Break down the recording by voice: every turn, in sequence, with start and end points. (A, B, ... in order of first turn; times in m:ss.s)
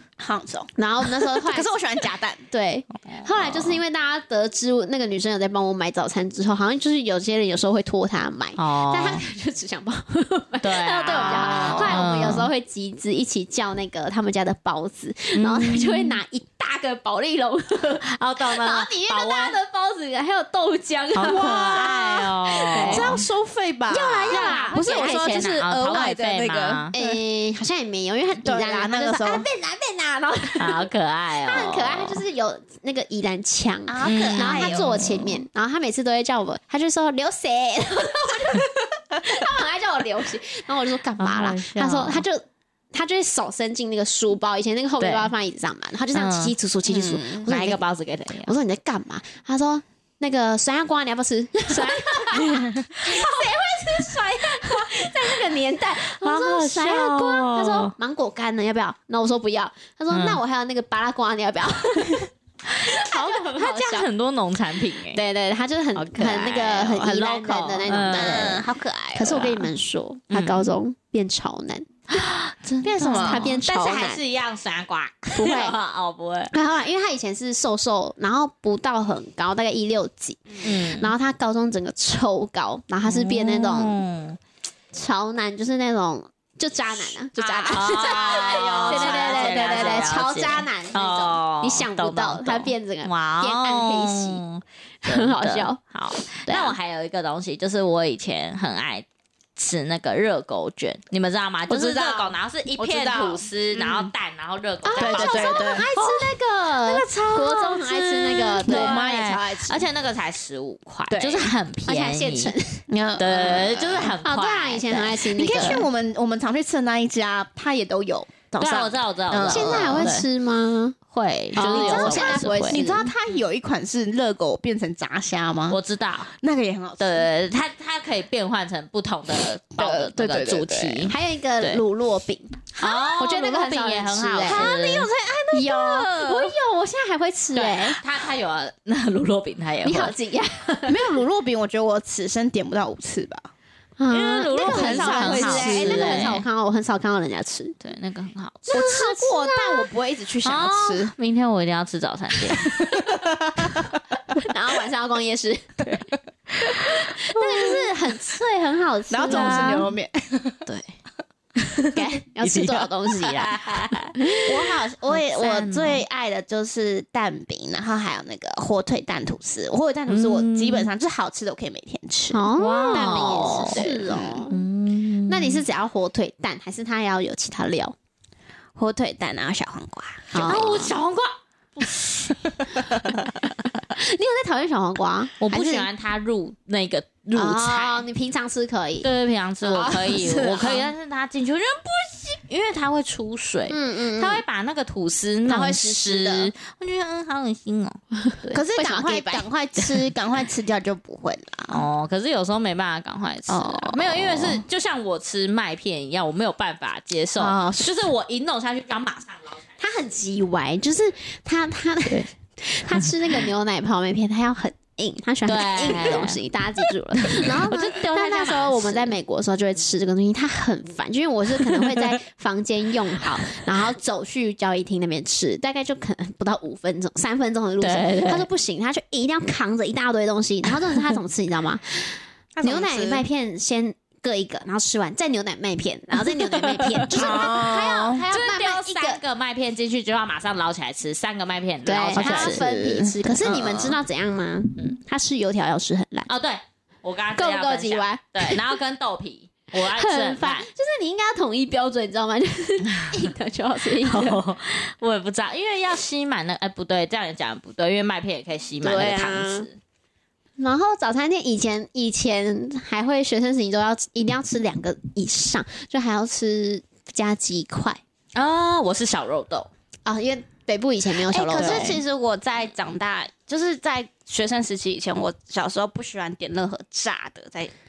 0:00.2-0:02.4 A
0:00.8-0:01.7 B
0:02.5-0:23.2 B
0:03.1-0:03.8 C
0:08.6-0:09.2 C
0:10.6-0:12.5 C
0:11.1-0:12.0 A
0:15.4-0:16.2 C
0:18.0-0:19.6 C
0:21.1-0:23.2 C
0:21.2-0:27.2 A
0:23.9-0:25.5 B
0:24.3-0:26.9 C
0:26.9-0:30.9 B
0:28.4-0:29.5 A
0:30.6-0:32.2 C
0:31.4-0:47.8 B
0:33.9-0:35.0 A
0:34.0-0:35.4 C
0:41.2-0:42.2 C
0:45.0-0:45.3 C
0:46.1-0:46.6 C
0:46.9-0:47.4 A
0:47.5-0:48.5 C
0:48.4-1:04.1 B
0:51.7-0:52.9 C
0:56.0-0:57.9 C
1:00.1-1:00.4 C
1:02.7-1:05.2 C
1:05.1-1:11.9 B
1:06.0-1:08.6 C
1:08.1-1:09.6 A
1:10.3-1:10.7 C
1:12.1-1:16.5 C
1:12.8-1:13.6 A
1:13.1-1:14.2 B
1:15.4-1:15.8 B
1:16.5-1:24.0 B
1:20.6-1:21.1 C
1:23.0-1:24.4 C
1:24.9-1:34.4 B
1:27.4-1:30.1 A
1:27.7-1:46.2 C
1:35.0-1:35.8 B
1:36.4-1:36.8 B
1:41.7-1:44.1 A
1:44.8-1:49.0 B
1:45.0-1:45.9 A
1:46.8-1:49.9 A
1:48.6-1:52.6 C
1:51.1-1:51.5 A
1:51.9-1:52.8 B
1:52.9-1:54.2 A
1:53.2-1:55.8 C
1:54.2-1:55.8 B
1:55.4-2:00.2 A
1:58.6-2:00.3 C
1:59.5-2:01.0 B
2:01.1-2:02.9 C
2:01.6-2:03.1 B
2:01.6-2:05.8 A
2:05.7-2:06.3 C
2:06.3-2:07.3 A
2:07.0-2:11.8 C
2:09.8-2:11.1 A
2:11.1-2:14.7 B
2:12.8-2:15.1 C
2:14.4-2:16.6 A
2:15.5-2:18.0 B
2:17.6-2:20.1 C
2:19.8-2:21.2 B
2:20.9-2:23.5 A
2:24.0-2:27.8 B
2:24.1-2:26.4 C
2:24.6-2:26.4 A
2:27.8-2:28.8 C
2:28.7-2:29.9 B
2:28.7-2:31.1 A
2:30.4-2:32.9 C
2:32.5-2:33.9 A
2:34.4-2:36.0 B
2:37.0-2:39.9 B
2:39.1-2:40.6 A
2:39.3-2:39.9 C
2:41.6-2:44.1 C
2:41.9-2:43.6 B
2:44.2-2:44.5 B
2:44.5-2:54.5 A
2:45.1-2:46.0 C
2:50.1-2:50.9 C
2:52.3-2:54.6 B
2:52.6-2:53.8 C
2:54.5-2:55.6 C
2:55.3-2:58.0 B
2:58.8-3:00.6 A
3:00.3-3:01.0 B
3:00.4-3:02.5 C
3:03.9-3:05.9 B
3:05.4-3:08.1 C
3:07.4-3:09.1 B
3:09.0-3:18.6 C
3:09.6-3:10.9 B
3:10.4-3:10.7 A
3:13.7-3:14.4 B
3:15.5-3:16.5 B
3:18.5-3:19.5 B
3:18.5-3:21.8 A
3:21.7-3:29.6 C
3:23.5-3:24.7 A
3:27.4-3:28.0 A
3:29.8-3:59.2 B
3:35.5-3:36.4 C
3:37.2-3:39.1 C
3:47.8-3:48.5 C
3:52.5-3:53.2 A
3:57.0-3:57.8 C
3:57.1-3:58.2 A
3:58.3-4:02.6 C
4:01.8-4:06.3 B
4:02.2-4:03.9 A
4:03.4-4:03.9 C
4:06.3-4:10.7 C
4:07.4-4:08.6 B
4:09.8-4:14.4 B
4:14.0-4:19.8 C
4:18.8-4:19.7 B
4:20.6-4:28.0 B
4:28.4-4:29.7 C
4:30.0-4:32.0 B
4:31.3-4:37.7 A
4:31.5-4:32.0 C